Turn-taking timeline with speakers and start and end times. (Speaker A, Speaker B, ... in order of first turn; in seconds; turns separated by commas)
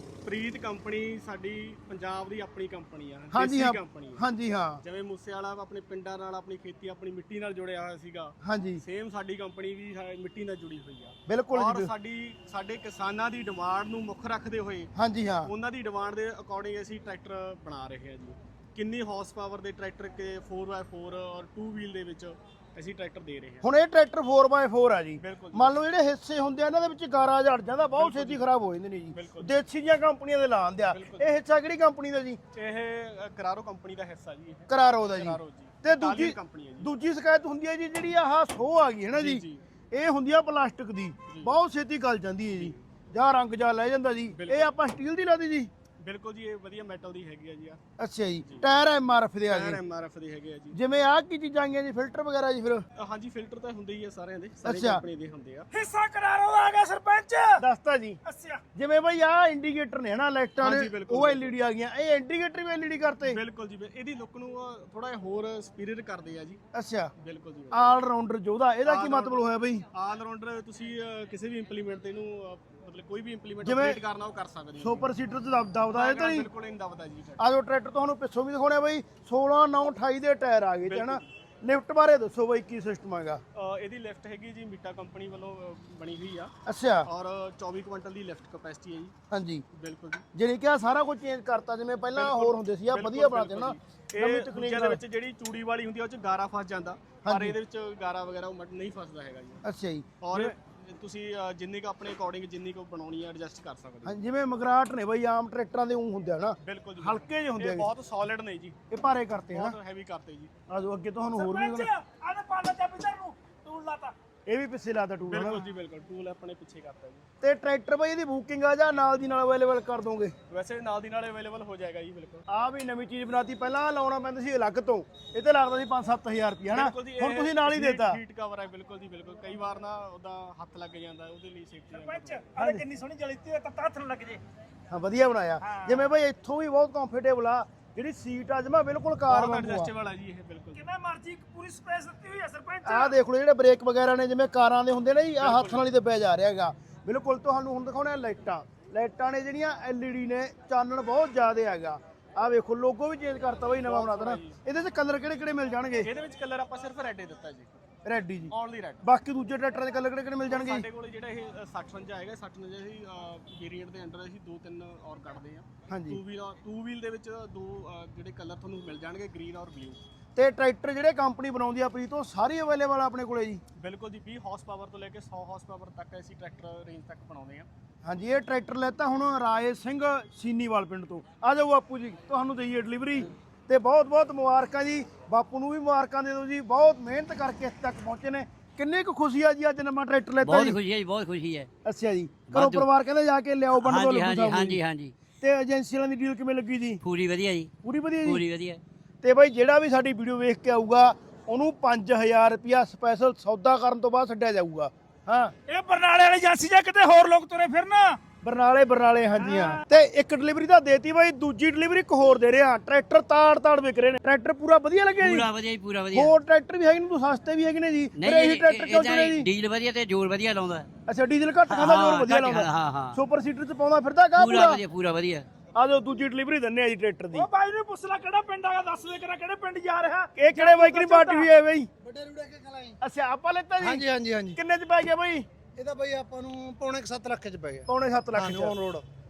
Speaker A: 0.2-4.2, Speaker B: 3.3-4.8, Speaker A: 4.8-14.9, Speaker B: 8.4-8.8, Speaker B: 11.3-11.9, Speaker B: 14.9-15.5, Speaker A: 15.4-23.6, Speaker B: 23.6-32.4, Speaker A: 25.2-25.8, Speaker A: 28.0-28.5, Speaker A: 29.1-29.6, Speaker A: 30.9-31.2, Speaker A: 32.5-36.9, Speaker B: 34.7-45.7, Speaker A: 39.1-39.6, Speaker A: 41.3-41.6, Speaker A: 42.5-42.8, Speaker A: 44.3-44.7, Speaker A: 46.0-47.8, Speaker B: 48.0-49.8, Speaker A: 49.5-50.8, Speaker B: 50.7-52.8, Speaker A: 53.0-55.7, Speaker B: 54.6-55.0, Speaker C: 55.7-57.6, Speaker B: 57.6-58.2, Speaker C: 58.2-58.6, Speaker B: 58.8-63.4, Speaker A: 60.6-61.5, Speaker A: 63.2-66.6, Speaker B: 66.7-67.1, Speaker A: 67.2-68.0, Speaker B: 67.7-69.8, Speaker A: 68.8-69.4, Speaker A: 69.9-75.1, Speaker B: 73.6-74.0, Speaker B: 74.8-76.5, Speaker A: 75.9-77.4, Speaker B: 77.4-83.4, Speaker A: 80.8-81.3, Speaker A: 83.5-86.5, Speaker B: 86.7-87.1, Speaker A: 87.1-89.2, Speaker B: 89.3-89.6, Speaker A: 89.7-90.2, Speaker B: 90.3-95.0, Speaker A: 92.2-99.6, Speaker B: 97.2-97.6, Speaker B: 99.6-100.5, Speaker A: 100.2-104.2, Speaker B: 104.0-107.9, Speaker A: 106.6-108.8, Speaker B: 108.9-109.8, Speaker A: 109.5-110.5, Speaker B: 110.7-111.9, Speaker C: 111.4-114.1, Speaker B: 114.5-115.6, Speaker A: 115.3-117.2, Speaker B: 117.4-120.3, Speaker A: 120.5-122.4, Speaker B: 122.5-128.2, Speaker A: 126.7-132.5, Speaker C: 131.9-134.4, Speaker B: 132.6-132.9, Speaker B: 134.9-139.9, Speaker C: 135.6-136.1, Speaker A: 139.3-140.8, Speaker C: 140.7-143.2, Speaker B: 142.8-156.1, Speaker A: 145.4-145.8, Speaker A: 153.8-154.6, Speaker A: 156.0-157.8, Speaker B: 158.1-160.8, Speaker A: 158.5-159.0, Speaker A: 160.5-170.0, Speaker B: 165.9-166.2, Speaker B: 170.3-173.6, Speaker A: 173.8-177.7, Speaker B: 178.0-190.8, Speaker D: 190.4-191.7, Speaker B: 191.8-194.8, Speaker D: 192.5-192.9, Speaker D: 193.8-195.1, Speaker B: 195.4-197.0, Speaker D: 197.0-197.7, Speaker B: 197.8-198.4, Speaker D: 198.2-198.8, Speaker B: 199.2-205.5, Speaker C: 205.7-208.2, Speaker B: 208.4-215.5, Speaker C: 209.4-209.8, Speaker D: 215.2-216.3, Speaker B: 216.1-219.5, Speaker D: 218.2-220.9, Speaker B: 221.1-224.8, Speaker D: 221.7-223.2, Speaker D: 224.4-225.5, Speaker B: 225.8-227.5, Speaker C: 227.3-231.5, Speaker B: 230.4-231.9, Speaker E: 232.0-233.0, Speaker B: 233.0-235.5, Speaker E: 233.8-234.6, Speaker E: 235.8-239.1, Speaker B: 237.9-238.7